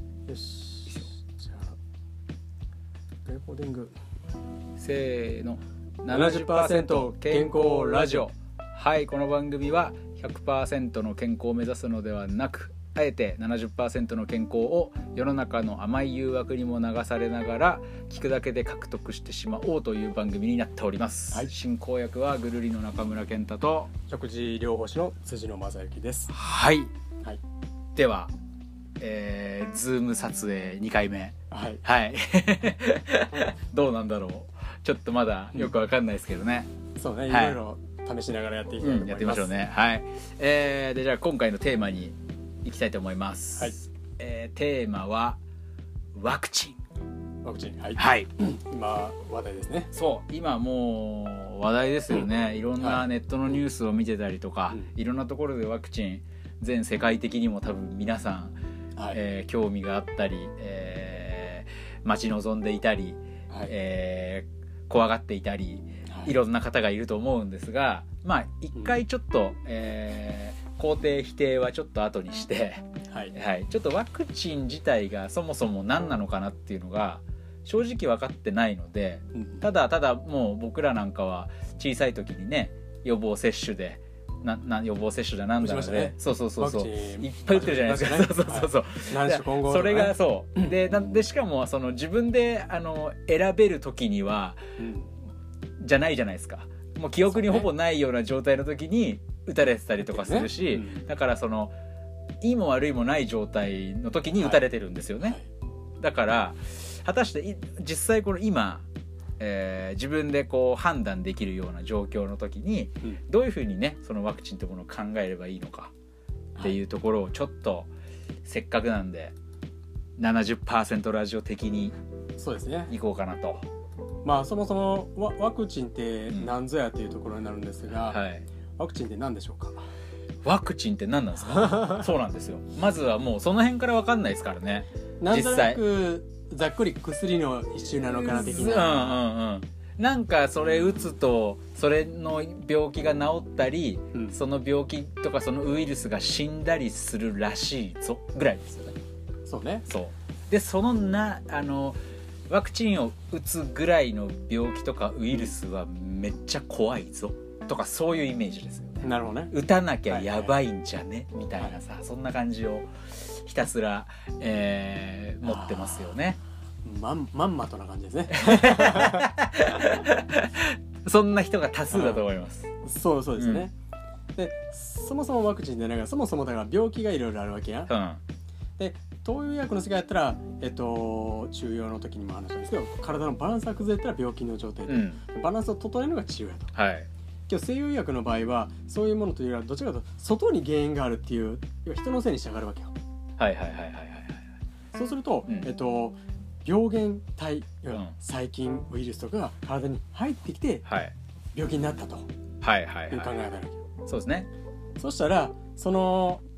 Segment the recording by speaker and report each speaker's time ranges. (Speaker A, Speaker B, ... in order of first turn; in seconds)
Speaker A: 0.3-1.8, 3.3-3.9, 6.1-8.3, 24.1-26.3, 31.5-31.8, 37.0-39.5, 47.4-49.9, 52.8-53.5, 66.1-66.3, 79.4-79.6, 85.6-91.0, 94.8-95.1, 97.3-97.7, 100.0-101.0, 104.4-104.6, 122.4-122.9, 124.2-128.2, 128.8-129.8, 131.5-132.1, 135.2-139.2, 149.5-149.9, 159.0-159.5, 160.1-160.5, 165.4-166.2, 166.8-169.3, 171.9-172.2, 172.8-173.7, 174.4-177.9, 178.8-186.7, 187.5-192.9, 194.9-200.8, 201.6-202.3, 203.1-203.8, 205.0-206.4
Speaker B: 4.8-23.9, 26.3-26.9, 28.0-28.3, 29.0-36.7, 37.3-37.6, 38.8-45.4, 46.1-46.8, 48.0-48.4, 49.9-58.6, 59.1-94.6, 95.8-101.8, 102.4-105.4, 106.0-108.9, 109.4-115.9, 116.6-117.9, 118.4-119.3, 120.2-122.0, 122.9-123.6, 127.9-128.5, 130.4-135.8, 138.2-149.0, 149.9-166.4, 168.3-172.7, 173.4-173.7, 177.9-178.2, 184.9-185.2, 186.7-187.1, 193.4-194.4, 200.9-201.1, 202.6-203.4, 204.1-204.5